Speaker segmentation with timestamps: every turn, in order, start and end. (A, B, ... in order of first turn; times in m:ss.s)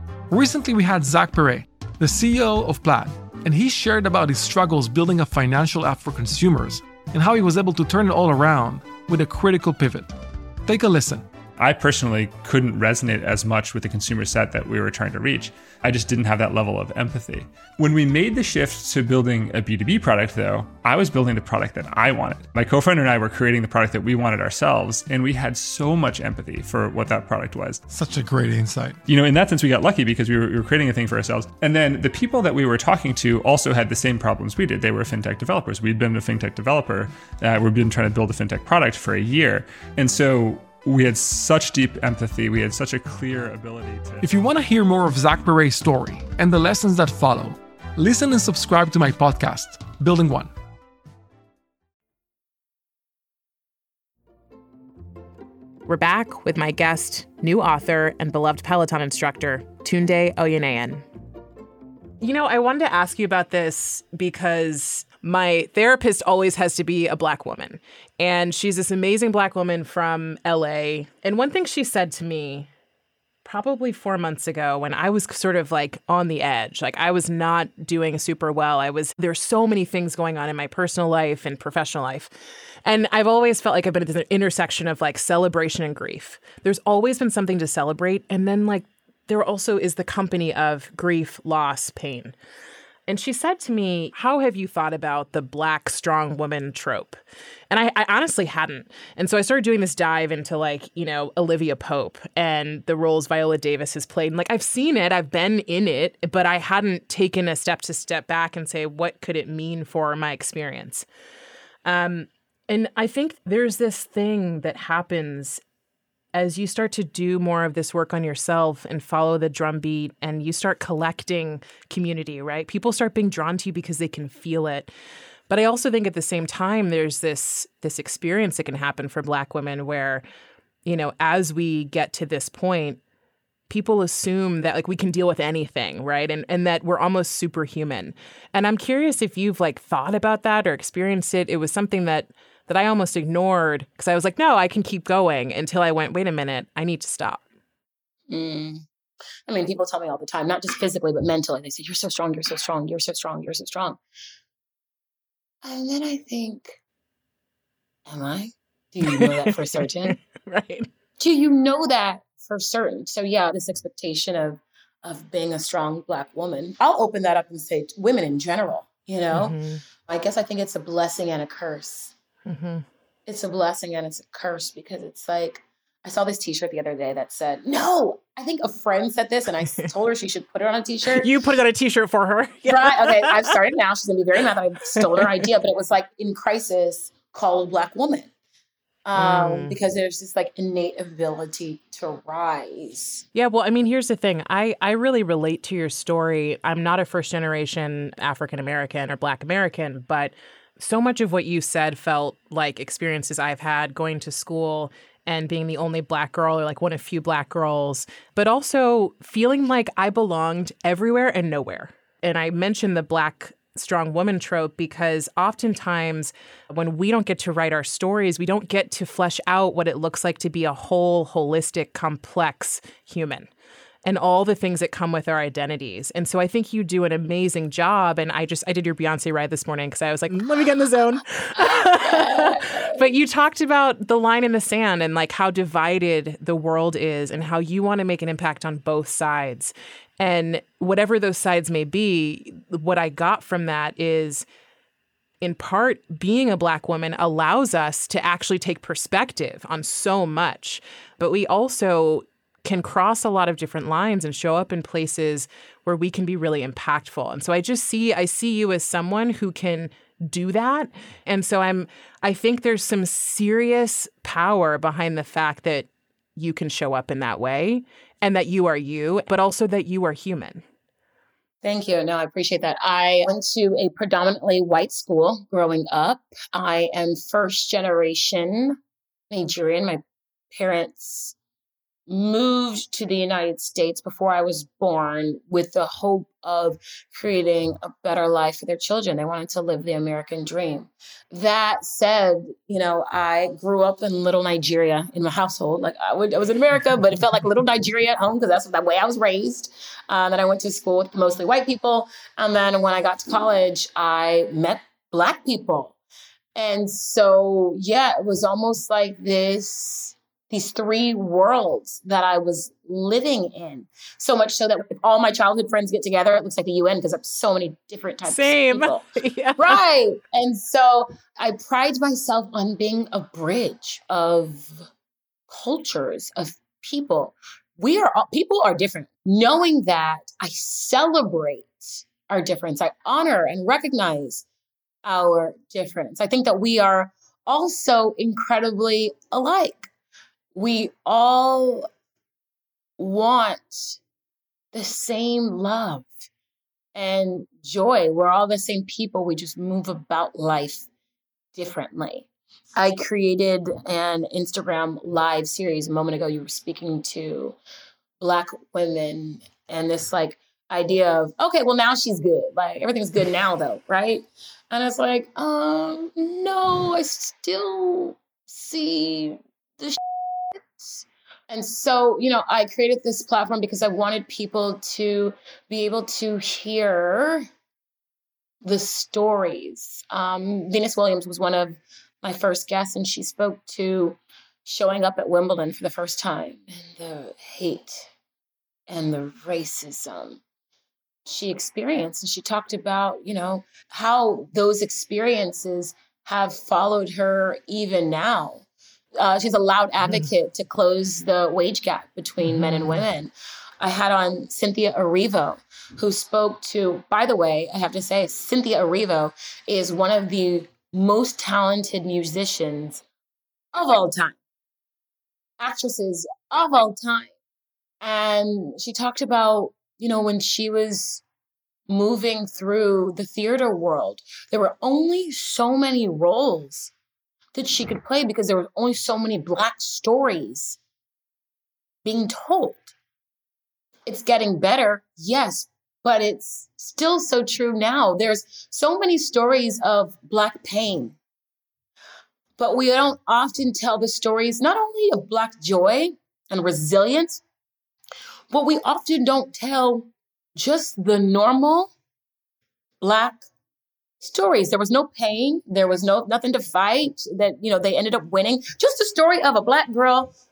0:00.3-0:11.3 A
0:11.6-0:27.8 B
0:27.9-0:29.0 A
0:29.1-0:44.3 B
0:44.2-0:50.5 A
0:55.9-1:01.0 C
1:02.2-1:12.7 C
1:13.4-1:22.3 C
1:22.8-1:32.4 C
1:33.1-1:37.2 C
1:37.7-1:51.1 C
1:51.8-1:55.6 C
1:56.3-2:04.9 C
2:05.5-2:10.2 C
2:10.9-2:13.0 C
2:13.7-2:27.4 C
2:28.3-2:28.8 D
2:29.5-2:34.0 D
2:35.6-2:36.8 D
2:38.1-2:40.2 D
2:39.0-2:40.9 C
2:41.2-2:52.1 D
2:49.3-2:49.8 C
2:52.5-2:52.8 C
2:53.3-3:01.3 D
3:01.1-3:03.6 C
3:02.6-3:08.3 D
3:05.0-3:05.4 C
3:09.0-3:13.2 D
3:09.2-3:09.8 C
3:13.3-3:43.5 C
3:44.0-4:04.4 C
3:51.6-3:53.0 D
4:05.4-4:30.6 C
4:31.6-4:38.8 D
4:39.3-4:41.4 D
4:42.1-5:06.0 D
5:06.6-5:19.0 D
5:18.3-5:19.8 C
5:19.6-5:24.9 D
5:25.5-5:34.4 D
5:35.0-5:39.9 D
5:40.5-5:41.9 D
5:43.0-5:44.0 D
5:44.7-5:46.3 D
5:47.0-5:50.9 D
5:51.6-5:57.6 D
5:58.2-6:17.5 D
6:18.6-6:28.1 D
6:28.9-6:30.4 D
6:31.2-6:38.7 D
6:39.2-6:53.0 D
6:42.4-6:43.0 C
6:53.7-6:54.4 D
6:55.6-6:57.3 D
6:58.0-7:01.2 D
7:01.9-7:06.9 D
7:07.6-7:10.8 D
7:12.0-7:12.9 D
7:14.1-7:21.2 D
7:22.6-7:27.4 D
7:28.5-7:31.9 D
7:33.0-7:33.4 D
7:34.2-7:40.3 D